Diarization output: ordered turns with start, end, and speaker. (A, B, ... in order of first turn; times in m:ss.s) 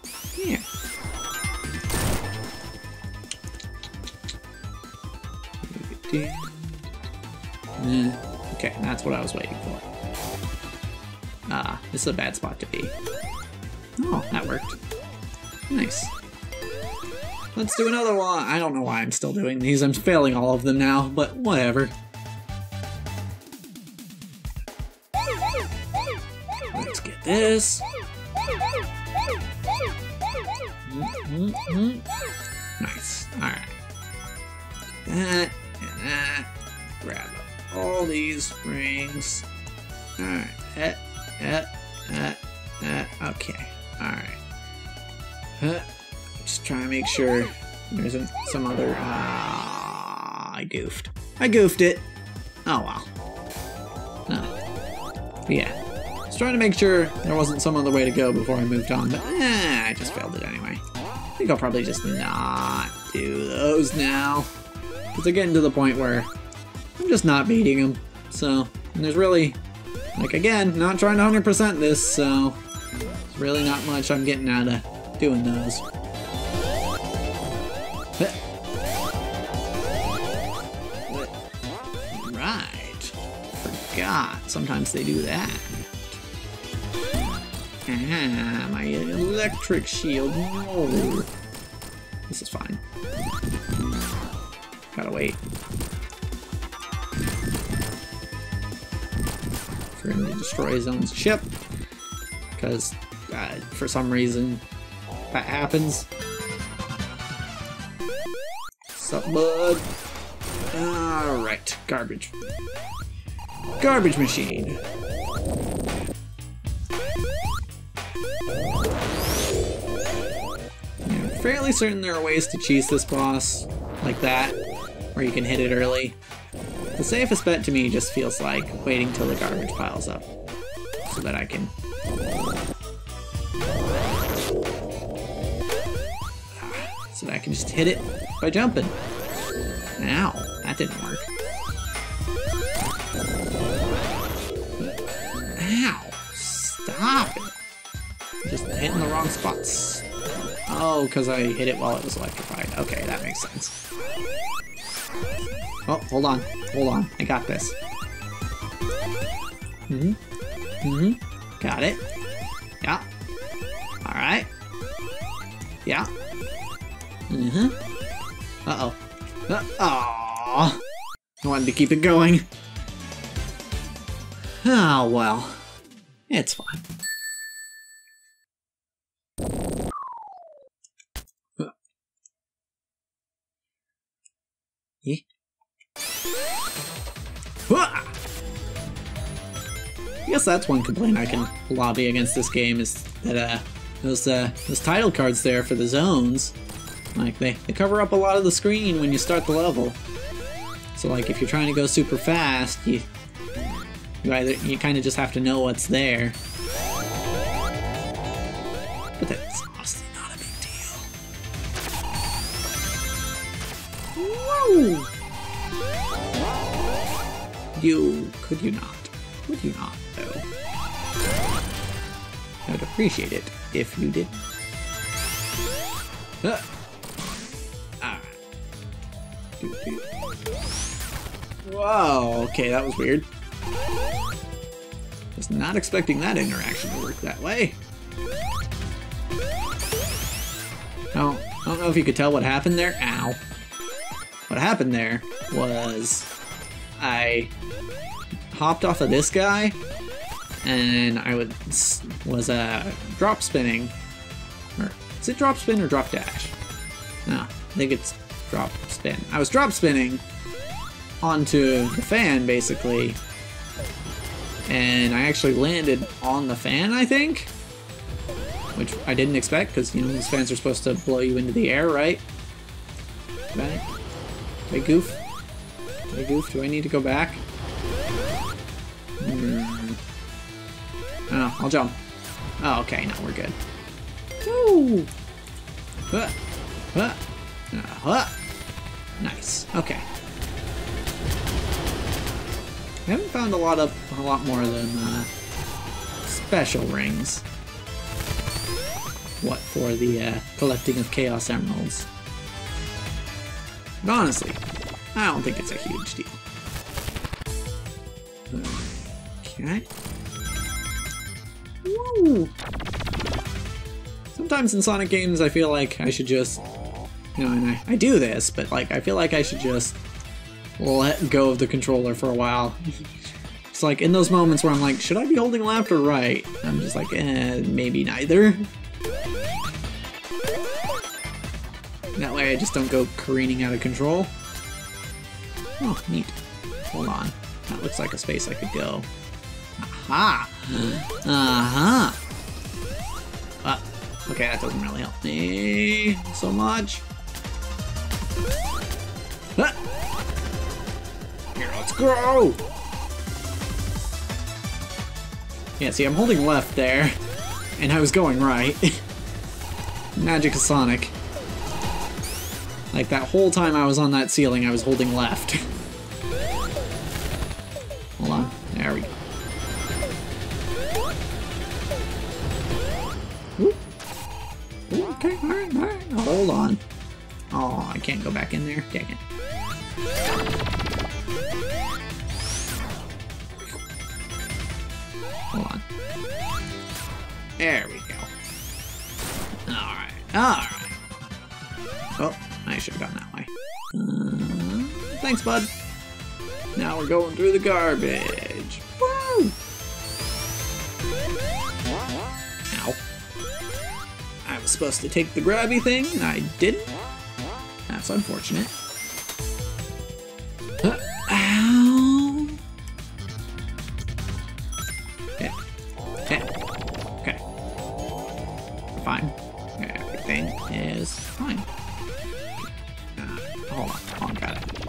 0:00.3-0:00.6 A
0:05.6-0:06.9 A
0:07.8-0:09.9 A
0:11.5-0:12.9 A
0:14.0-0:14.8 A
0:15.7-0:16.1 A
0:17.6-0:21.9 A
0:26.7-0:27.8 A
0:30.9-0:32.0 A
0:32.8-0:33.7 A
0:35.0-0:36.5 A
0:37.0-0:39.4 A
0:40.2-0:44.4 A
0:45.6-0:45.9 A
0:46.4-0:52.1 A
0:52.7-0:53.1 A
0:54.3-0:54.5 A
0:55.5-0:55.8 A
0:56.3-1:00.8 A
1:01.4-1:04.5 A
1:05.1-1:06.3 A
1:07.0-1:09.6 A
1:10.2-1:12.6 A
1:13.3-1:15.8 A
1:21.1-1:21.4 A
1:22.1-1:26.2 A
1:27.9-1:31.3 A
1:32.3-1:32.8 A
1:34.9-1:35.4 A
1:40.0-1:41.5 A
1:42.6-1:44.6 A
1:45.3-1:46.1 A
1:48.9-1:49.9 A
1:50.7-1:52.3 A
1:53.8-1:54.8 A
2:01.0-2:04.6 A
2:05.2-2:06.2 A
2:07.0-2:10.3 A
2:11.0-2:11.7 A
2:16.6-2:19.0 A
2:20.0-2:21.3 A
2:25.6-2:27.6 A
2:28.4-2:30.0 A
2:30.7-2:33.7 A
2:35.9-2:37.8 A
2:39.9-2:40.2 A
2:40.8-2:42.0 A
2:44.0-2:44.5 A
2:45.8-2:46.1 A
2:47.3-2:47.8 A
2:48.7-2:50.8 A
2:51.4-2:52.5 A
2:54.6-2:55.6 A
2:56.3-2:56.8 A
3:07.7-3:08.1 A
3:10.3-3:16.6 A
3:17.2-3:20.0 A
3:21.0-3:23.1 A
3:24.2-3:26.4 A
3:29.2-3:31.1 A
3:34.2-3:35.1 A
3:37.8-3:40.4 A
3:42.7-3:44.4 A
3:48.0-3:48.4 A
3:49.6-3:50.0 A
3:51.6-3:53.3 A
3:55.4-3:57.8 A
4:01.1-4:03.4 A
4:04.5-4:06.3 A
4:07.0-4:07.5 A
4:08.5-4:09.8 A
4:10.6-4:14.0 A
4:14.8-4:16.6 A
4:17.3-4:20.2 A
4:21.2-4:23.2 A
4:24.7-4:27.5 A
4:28.8-4:32.2 A
4:33.5-4:33.9 A
4:34.7-4:35.2 A
4:36.1-4:37.4 A
4:39.2-4:40.0 A
4:41.3-4:42.0 A
4:42.6-4:43.6 A
4:44.4-4:45.1 A
4:46.1-4:46.4 A
4:46.9-4:47.2 A
4:47.7-4:48.3 A
4:49.2-4:50.0 A
4:53.1-4:55.3 A
4:56.2-4:57.4 A
4:59.4-5:02.1 A
5:04.0-5:04.6 A
5:05.2-5:06.4 A
5:08.5-5:08.8 A
5:09.4-5:09.8 A
5:11.8-5:12.5 A
5:14.3-5:16.6 A
5:17.4-5:20.0 A
5:20.8-5:22.8 A
5:23.7-5:28.7 A
5:32.2-5:34.3 A
5:35.8-5:36.4 A
5:36.9-5:39.1 A
5:39.8-5:42.2 A
5:43.6-5:47.0 A
5:51.6-5:52.6 A
5:55.8-5:57.2 A
5:57.8-5:59.0 A
6:00.2-6:01.2 A
6:02.9-6:05.6 A
6:08.2-6:09.1 A
6:14.9-6:16.8 A
6:17.5-6:19.2 A
6:25.5-6:25.8 A
6:27.6-6:28.3 A
6:29.7-6:31.0 A
6:32.2-6:35.7 A
6:36.8-6:39.6 A
6:42.7-6:43.0 A
6:44.4-6:47.0 A
6:47.9-6:48.7 A
6:50.8-6:52.6 A
6:59.0-7:01.7 A
7:02.6-7:04.7 A